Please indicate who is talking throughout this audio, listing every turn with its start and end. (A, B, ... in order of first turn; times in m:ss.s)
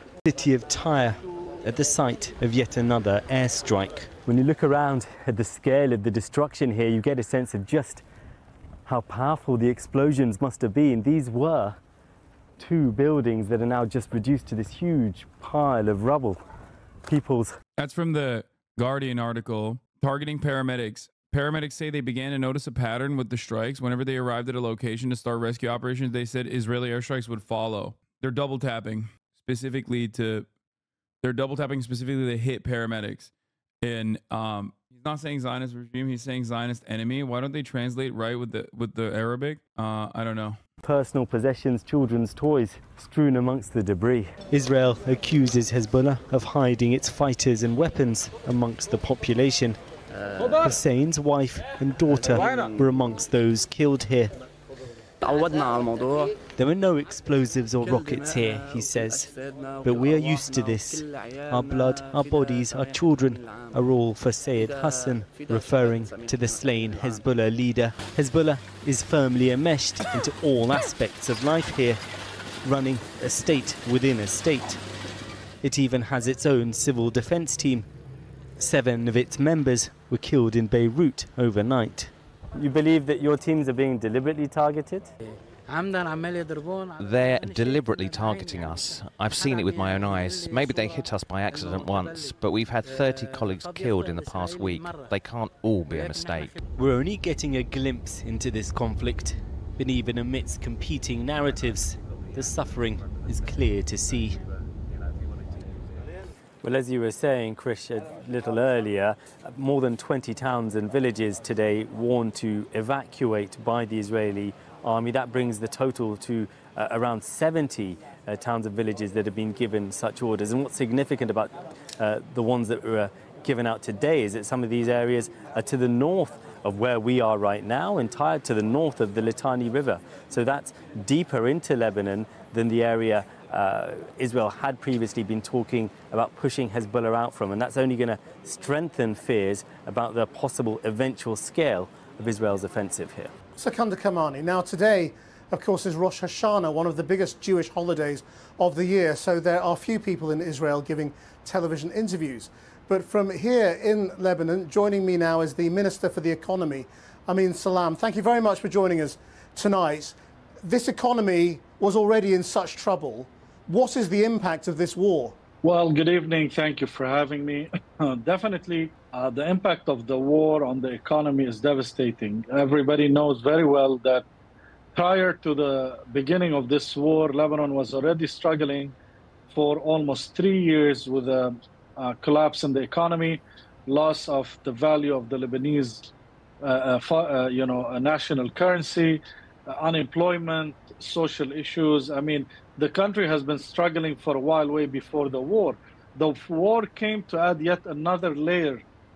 0:00.3-0:04.2 A
0:04.2-0:08.0 B
0:08.8-0:11.8 B
0:12.6-0:16.4 B
0:17.1-0:17.6 B
0:17.8-0:30.5 C
0:31.2-0:33.3 C
0:33.8-0:40.6 C
0:40.8-0:44.4 B
0:44.4-0:49.8 A
0:50.6-0:54.3 A
0:56.6-0:59.3 A
0:59.8-1:12.0 A
1:12.6-1:14.8 A
1:15.6-1:17.9 A
1:18.6-1:22.1 A
1:22.6-1:25.1 B
1:27.0-1:36.6 D
1:36.8-1:44.4 A
1:46.6-2:23.3 B
2:23.6-2:45.4 E
2:45.6-2:54.2 F
2:55.0-2:59.0 F
2:59.5-3:06.1 F
3:06.6-3:18.8 F